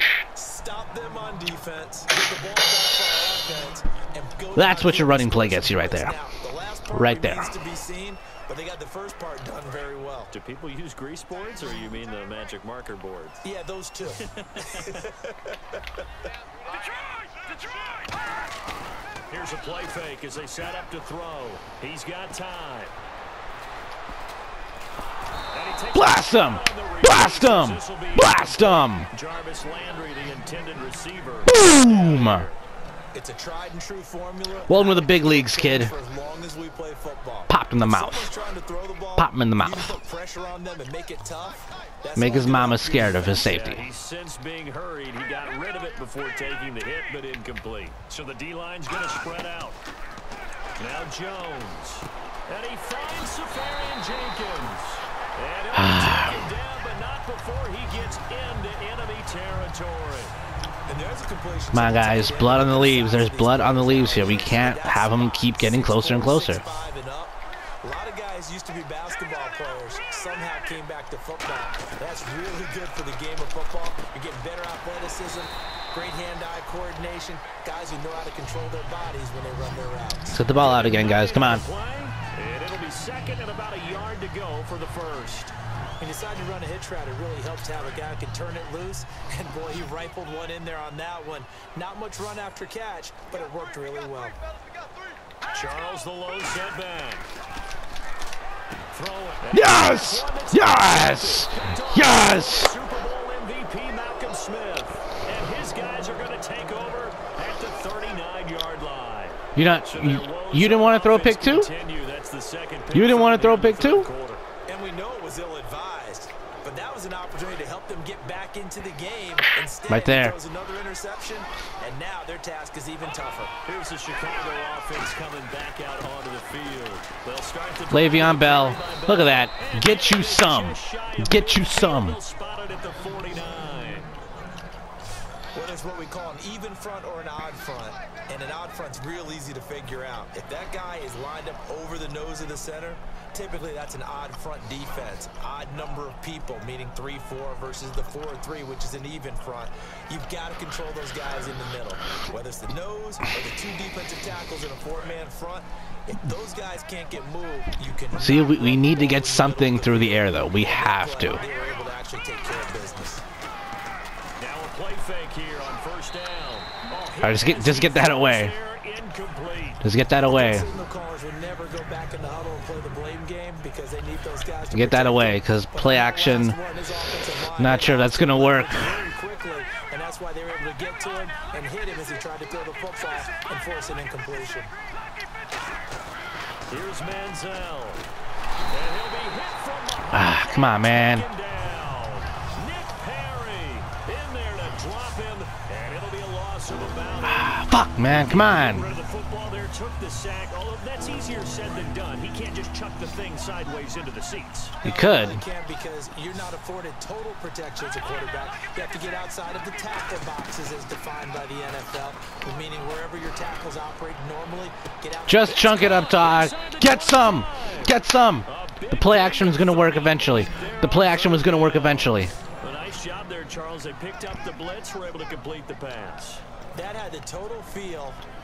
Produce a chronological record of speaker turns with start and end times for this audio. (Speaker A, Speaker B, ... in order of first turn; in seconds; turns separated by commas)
Speaker A: 0.3-10.3, Speaker B: 4.5-6.2, Speaker B: 6.9-7.5, Speaker C: 10.3-13.4, Speaker A: 13.4-15.6, Speaker C: 14.4-14.9, Speaker C: 19.3-22.9, Speaker C: 25.5-32.6, Speaker B: 25.9-29.1, Speaker B: 31.5-32.5, Speaker A: 33.1-43.5, Speaker B: 34.7-35.9, Speaker B: 37.5-38.3, Speaker B: 39.2-39.9, Speaker B: 42.1-43.9, Speaker C: 43.3-49.8, Speaker C: 50.8-60.4, Speaker B: 55.7-56.4, Speaker A: 60.9-80.4, Speaker B: 61.7-66.6, Speaker B: 80.3-81.6, Speaker C: 80.5-85.5, Speaker A: 86.0-94.4, Speaker C: 95.5-97.3, Speaker C: 98.9-114.4, Speaker B: 99.5-102.7, Speaker B: 109.5-111.7, Speaker B: 112.9-114.1, Speaker A: 114.7-123.5, Speaker B: 119.9-120.3, Speaker C: 123.7-134.1, Speaker B: 127.9-132.2, Speaker A: 135.5-163.2, Speaker B: 158.2-161.4, Speaker C: 164.4-169.8, Speaker B: 167.2-168.6, Speaker B: 169.8-170.7, Speaker A: 170.2-184.7, Speaker B: 174.7-176.6, Speaker B: 177.6-178.9, Speaker C: 186.7-188.1, Speaker C: 188.7-204.8, Speaker B: 190.1-191.3, Speaker B: 197.2-198.9, Speaker A: 204.8-215.9, Speaker B: 204.8-205.4, Speaker B: 215.3-222.3, Speaker C: 215.5-226.4, Speaker A: 226.7-228.2